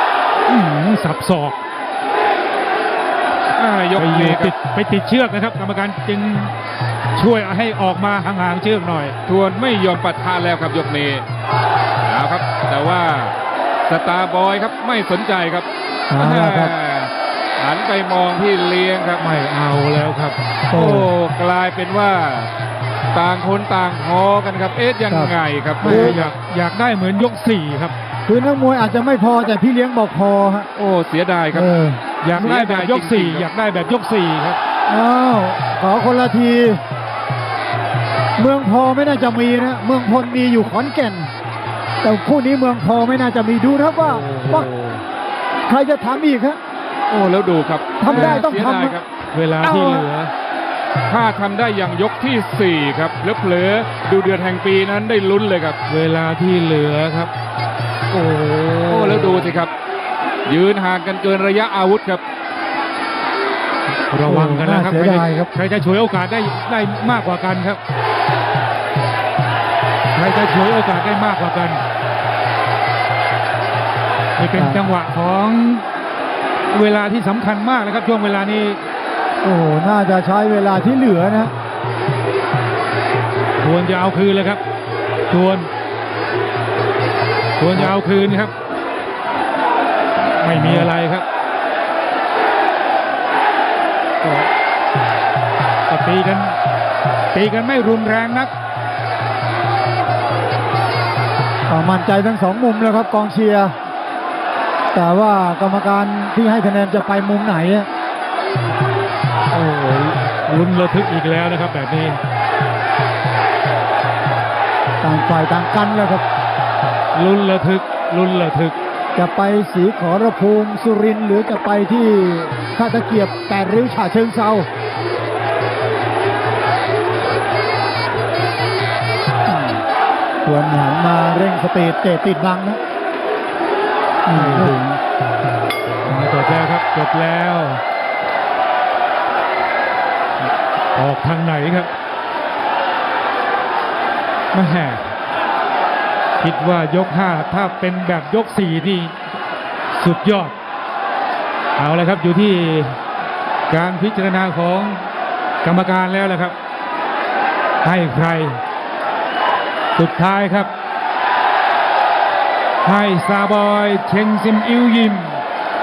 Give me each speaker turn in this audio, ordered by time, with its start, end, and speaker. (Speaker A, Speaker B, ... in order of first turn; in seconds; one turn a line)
Speaker A: 0.5-1.6
Speaker B: 3.5-4.5
Speaker A: 4.0-6.5
Speaker A: 7.1-9.1
Speaker B: 9.2-11.2
Speaker B: 12.0-13.3
Speaker B: 13.9-19.2
Speaker C: 16.1-16.7
Speaker A: 19.2-20.4
Speaker B: 20.7-22.5
Speaker C: 20.7-21.1
Speaker B: 23.1-26.2
Speaker C: 25.1-26.2
Speaker A: 25.8-27.9
Speaker C: 28.3-30.7
Speaker B: 30.7-31.7
Speaker C: 31.5-32.0
Speaker A: 32.2-34.6
Speaker B: 32.3-33.5
Speaker C: 34.9-36.8
Speaker C: 38.4-41.3
Speaker C: 42.0-44.7
Speaker A: 44.0-45.0
Speaker C: 45.6-46.6
Speaker B: 47.1-49.1
Speaker C: 48.0-49.0
Speaker A: 48.1-48.4
Speaker A: 49.3-50.3
Speaker B: 49.6-50.1
Speaker B: 51.1-55.8
Speaker A: 55.9-57.3
Speaker A: 58.1-59.6
Speaker B: 58.9-59.7
Speaker B: 60.5-62.2
Speaker A: 64.1-67.8
Speaker C: 64.2-65.5
Speaker A: 70.1-71.8
Speaker A: 74.4-75.8
Speaker C: 74.5-74.8
Speaker A: 76.7-78.8
Speaker C: 79.4-81.5
Speaker A: 83.6-84.6
Speaker A: 85.3-85.7
Speaker A: 87.6-88.5
Speaker A: 90.4-91.2
Speaker C: 90.5-90.9
Speaker A: 94.2-94.5
Speaker A: 95.9-96.5
Speaker A: 97.3-98.5
Speaker C: 101.7-103.7
Speaker C: 104.9-107.9
Speaker A: 109.5-112.2
Speaker C: 115.0-116.2
Speaker A: 117.1-118.7
Speaker C: 119.1-124.7
Speaker C: 129.5-129.8
Speaker C: 130.4-132.8
Speaker C: 134.2-134.8
Speaker A: 134.3-135.0
Speaker A: 136.1-137.8
Speaker A: 140.9-141.9
Speaker A: 144.5-145.1
Speaker A: 146.4-149.2
Speaker A: 149.9-150.6
Speaker A: 151.8-153.0
Speaker A: 153.7-155.0
Speaker A: 155.6-156.5
Speaker A: 157.8-158.6
Speaker A: 159.9-160.7
Speaker A: 162.8-165.4